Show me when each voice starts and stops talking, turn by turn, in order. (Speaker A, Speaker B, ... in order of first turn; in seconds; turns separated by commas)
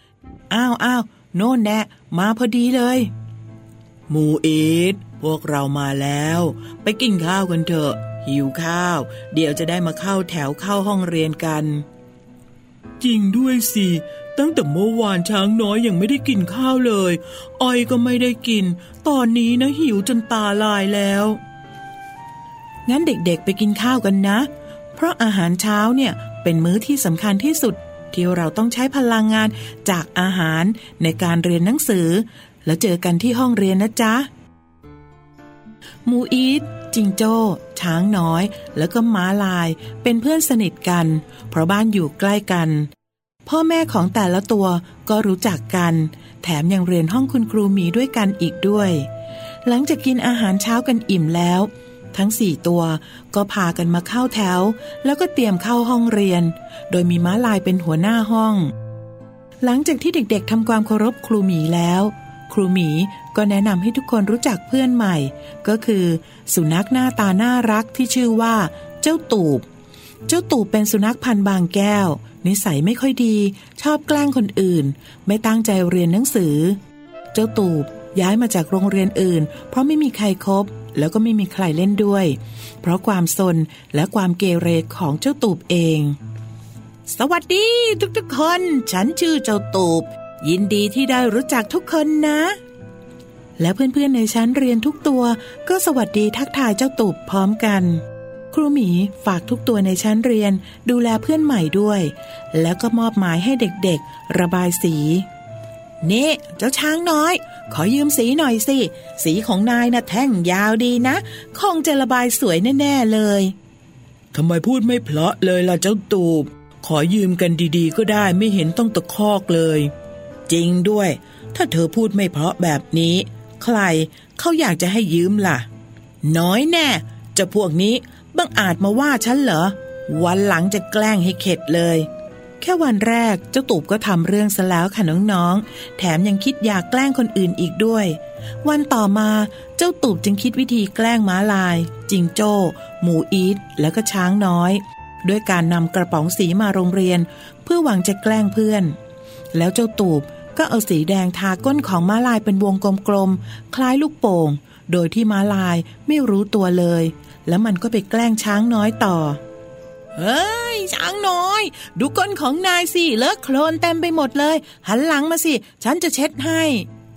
Speaker A: 0.5-3.1, Speaker A: 4.1-11.8, Speaker A: 13.0-21.4, Speaker A: 22.9-34.3, Speaker A: 36.1-42.9, Speaker A: 43.5-49.0, Speaker A: 49.7-58.7, Speaker A: 59.6-69.6, Speaker A: 70.3-76.8, Speaker A: 77.3-86.2, Speaker A: 87.1-92.6, Speaker A: 93.6-98.0, Speaker A: 98.5-105.2, Speaker A: 106.0-113.5, Speaker A: 114.3-119.9, Speaker A: 120.5-125.7, Speaker A: 126.2-132.1, Speaker A: 132.6-148.9, Speaker A: 149.5-159.4, Speaker A: 160.2-166.9